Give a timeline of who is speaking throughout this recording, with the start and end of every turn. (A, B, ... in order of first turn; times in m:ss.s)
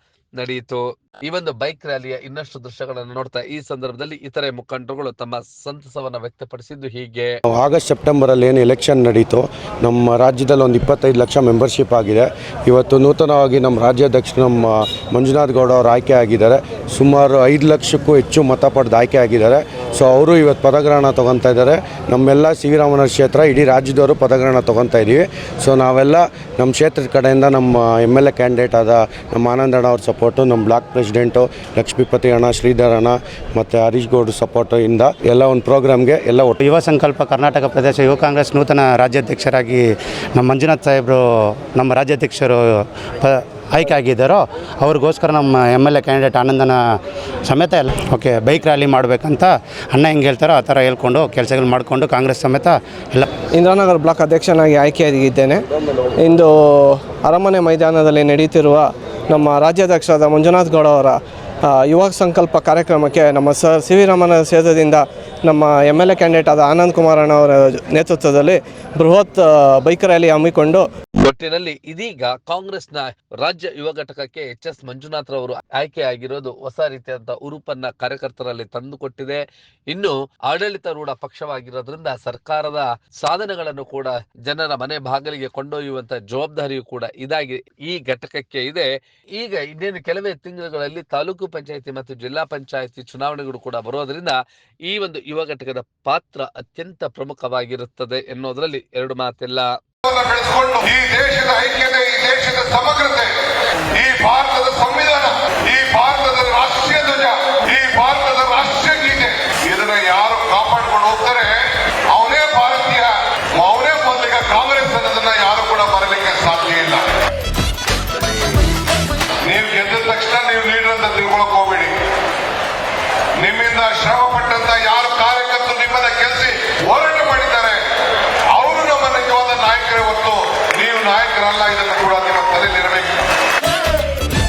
0:00.4-0:07.3 A
0:07.5-0:36.6 B
0:36.6-0:39.8 C
0:40.4-0:41.2 C
0:41.8-0:42.6 C
0:43.2-0:46.8 C
0:47.5-0:53.3 C
0:53.5-0:55.6 D
0:56.2-1:10.8 D
1:11.2-1:34.4 A
1:34.9-1:39.7 A
1:40.0-1:43.3 E
1:43.9-1:51.6 E
1:52.1-1:57.1 E
1:59.5-2:01.9 E
2:03.4-2:07.8 E
2:08.5-2:13.2 E